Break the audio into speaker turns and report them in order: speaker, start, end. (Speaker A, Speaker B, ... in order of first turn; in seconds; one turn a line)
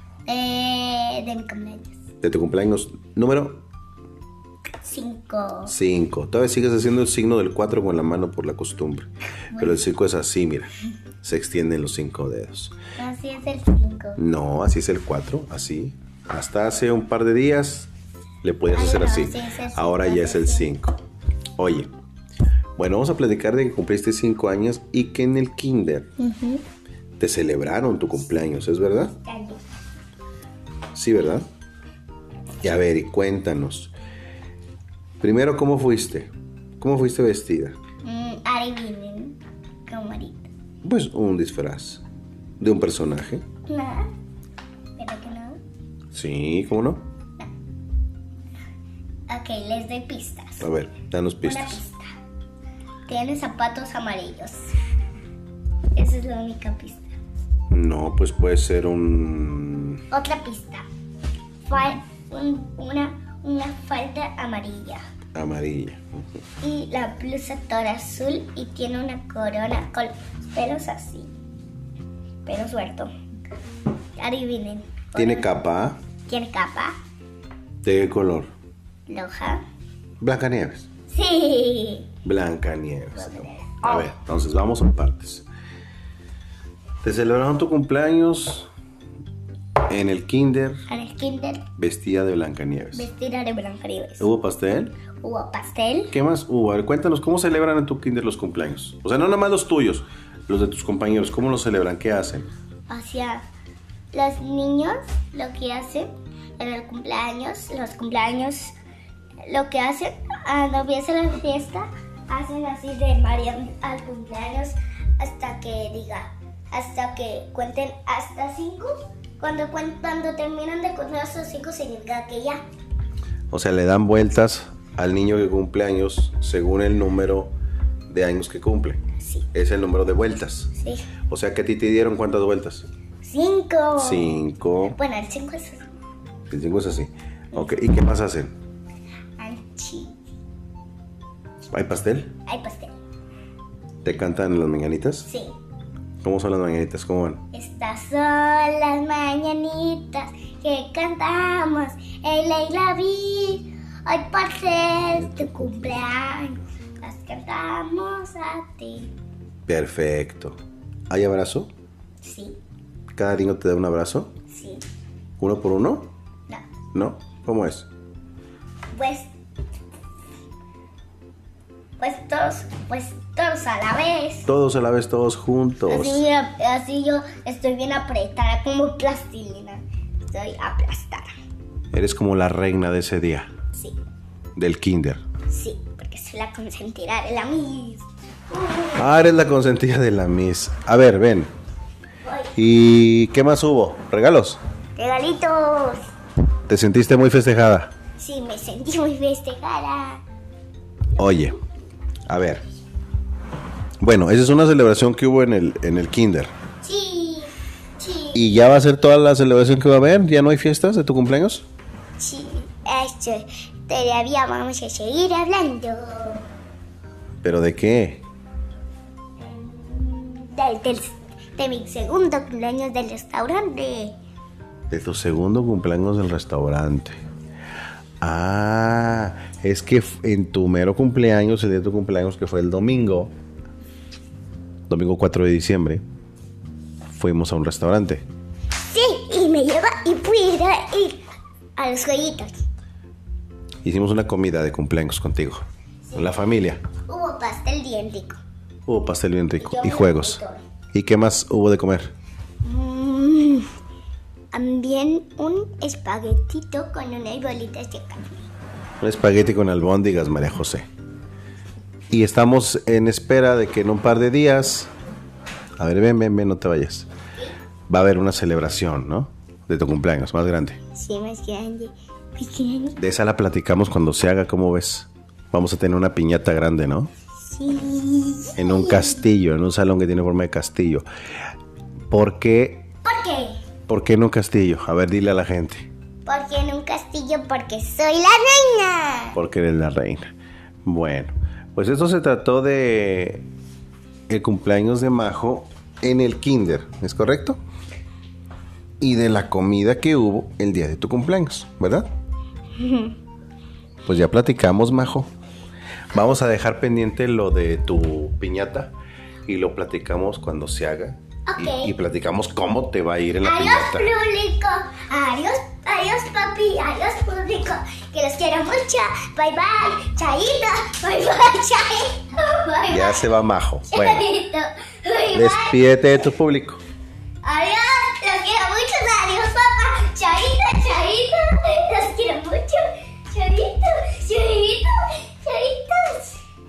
Speaker A: 0.3-1.9
Speaker B: 2.2-3.6
Speaker A: 4.8-5.7
Speaker B: 5.7-10.7
Speaker A: 9.5-9.8
Speaker B: 11.2-12.8
Speaker A: 12.9-14.2
Speaker B: 14.2-17.9
Speaker B: 18.4-20.9
Speaker A: 18.7-20.7
Speaker B: 21.6-21.9
Speaker B: 22.8-26.1
Speaker A: 26.2-26.6
Speaker B: 27.2-29.1
Speaker A: 29.2-29.6
Speaker B: 30.9-31.4
Speaker B: 32.6-33.9
Speaker B: 35.2-37.8
Speaker A: 38.0-40.5
Speaker B: 40.8-42.0
Speaker B: 42.6-43.4
Speaker A: 43.6-44.1
Speaker A: 45.0-45.6
Speaker B: 46.1-47.0
Speaker A: 49.3-50.6
Speaker B: 50.6-51.8
Speaker A: 51.4-52.1
Speaker A: 53.1-54.7
Speaker A: 55.9-57.1
Speaker B: 57.7-60.0
Speaker A: 60.1-60.8
Speaker A: 61.7-65.0
Speaker B: 65.3-66.2
Speaker A: 66.6-71.3
Speaker A: 72.5-73.1
Speaker A: 74.2-75.5
Speaker B: 75.2-76.0
Speaker A: 76.3-77.0
Speaker B: 77.8-78.5
Speaker A: 79.1-79.6
Speaker B: 80.2-80.9
Speaker A: 81.1-82.1
Speaker B: 82.2-85.5
Speaker A: 83.1-84.1
Speaker B: 87.0-88.7
Speaker B: 89.9-90.8
Speaker A: 90.9-91.7
Speaker B: 91.8-93.1
Speaker A: 92.9-94.3
Speaker B: 94.2-95.0
Speaker A: 95.2-96.1
Speaker B: 96.1-102.5
Speaker A: 102.9-103.5
Speaker A: 104.1-108.7
Speaker A: 109.5-122.6
Speaker B: 123.5-127.5
Speaker B: 128.1-129.0
Speaker A: 129.2-129.4
Speaker B: 129.5-130.7
Speaker A: 130.8-131.1
Speaker B: 131.3-132.9
Speaker A: 133.2-134.3
Speaker B: 134.0-135.0
Speaker A: 134.9-135.9
Speaker B: 136.5-138.5
Speaker A: 139.4-140.2
Speaker B: 141.7-142.3
Speaker A: 142.4-142.9
Speaker B: 144.0-145.3
Speaker A: 145.2-145.5
Speaker B: 146.2-147.4
Speaker A: 147.5-159.1
Speaker B: 155.1-156.0
Speaker B: 159.7-160.6
Speaker B: 161.1-161.7
Speaker A: 162.2-162.6
Speaker B: 163.1-164.3
Speaker A: 164.5-164.8
Speaker B: 165.4-166.1
Speaker B: 166.9-167.8
Speaker A: 168.9-169.3
Speaker A: 172.0-174.5
Speaker B: 174.5-176.2
Speaker A: 175.9-181.3
Speaker B: 181.9-183.5
Speaker B: 184.6-185.2
Speaker A: 185.5-189.1
Speaker B: 188.9-191.5
Speaker A: 192.2-192.5
Speaker B: 192.6-194.6
Speaker A: 195.0-196.0
Speaker B: 196.7-197.9
Speaker A: 198.2-200.2
Speaker B: 201.2-201.6
Speaker B: 202.3-202.6
Speaker B: 204.0-206.5
Speaker A: 206.8-208.5
Speaker B: 208.3-211.6
Speaker A: 212.2-216.4
Speaker B: 217.4-218.2
Speaker A: 219.4-224.2
Speaker B: 224.9-227.2
Speaker B: 228.2-233.3
Speaker B: 234.9-236.0
Speaker B: 237.1-238.2
Speaker A: 238.8-241.2
Speaker A: 241.8-242.6
Speaker B: 243.8-246.8
Speaker A: 247.1-248.4
Speaker B: 248.8-250.4
Speaker A: 249.6-250.6
Speaker B: 250.9-252.1
Speaker A: 252.6-253.7
Speaker A: 254.5-258.4
Speaker B: 259.0-260.8
Speaker B: 262.1-264.9
Speaker B: 265.8-267.1
Speaker B: 267.9-270.8
Speaker A: 270.9-273.0
Speaker B: 273.0-277.1
Speaker A: 277.4-279.2
Speaker B: 278.6-281.0
Speaker B: 282.1-282.8
Speaker A: 283.0-283.6
Speaker B: 283.9-285.9
Speaker A: 286.2-289.4
Speaker B: 289.4-290.3
Speaker B: 290.8-293.4
Speaker B: 294.3-297.6
Speaker B: 299.0-302.1
Speaker A: 302.8-303.1
Speaker B: 304.1-305.3
Speaker B: 306.1-308.9
Speaker B: 309.4-314.1
Speaker A: 311.5-311.9
Speaker A: 313.4-323.3
Speaker B: 322.9-324.2
Speaker A: 323.9-326.1
Speaker B: 325.3-326.8
Speaker A: 327.4-336.4